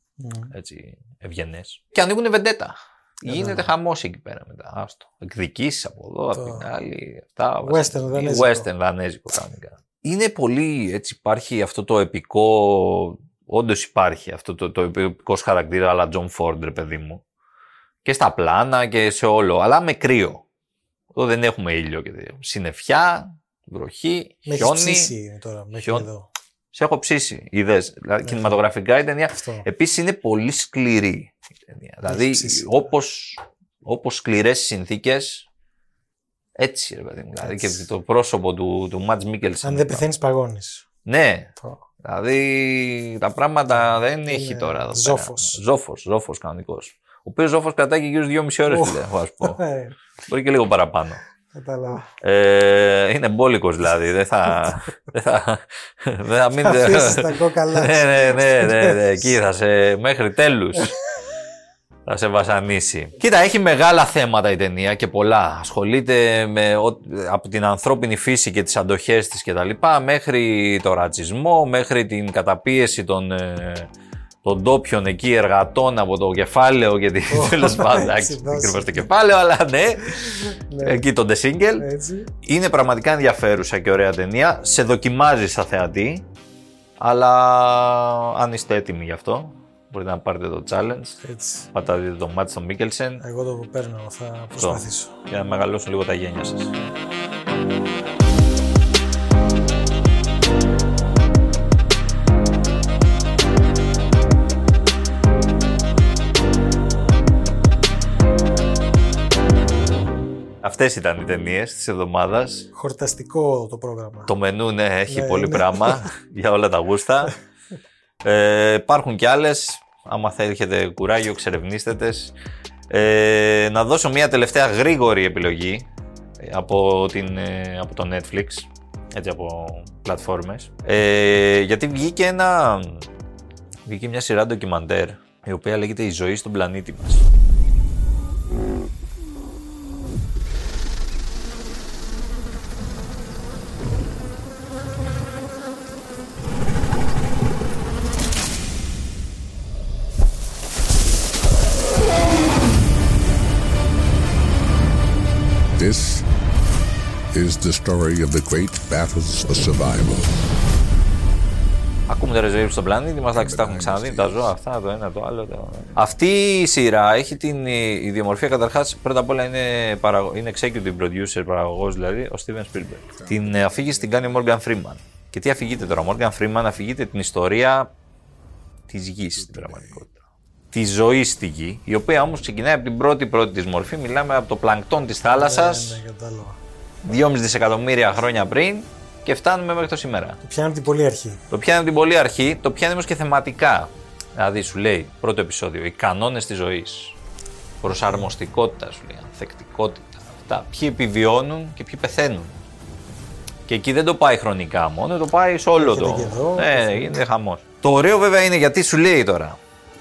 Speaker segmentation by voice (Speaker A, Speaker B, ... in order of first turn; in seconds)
Speaker A: 0.2-0.5, 3.2-3.7, 6.3-6.7, 7.6-8.7, 24.4-26.3, 28.2-28.6, 29.3-29.7, 32.1-32.7, 37.4-37.8, 39.6-40.9, 43.7-45.6, 48.7-49.9, 51.5-52.1, 56.6-59.1, 77.3-79.1, 80.2-81.0, 81.8-82.3, 91.2-91.7, 93.2-95.2, 112.7-114.3, 115.1-116.1, 185.3-186.6, 190.4-191.4, 197.9-198.3, 205.7-207.3
Speaker B: 0.5-17.2, 18.0-20.4, 21.1-25.1, 25.8-26.1, 26.7-35.4, 36.6-40.1, 41.0-41.5, 42.0-49.6, 50.3-51.2, 52.2-61.0, 62.0-73.9, 74.4-81.9, 82.4-86.2, 87.0-91.2, 91.7-93.2, 94.6-96.7, 110.6-112.7, 114.3-117.3, 118.2-122.3, 122.9-125.9, 126.4-133.1, 133.8-137.2, 162.1-177.9, 178.9-180.1, 180.7-186.0, 187.0-190.4, 191.5-197.1, 197.8-202.6, 203.7-209.6
Speaker C: 155.8-156.2, 157.3-160.3, 163.3-164.6, 165.8-166.0, 172.7-175.0, 179.3-180.1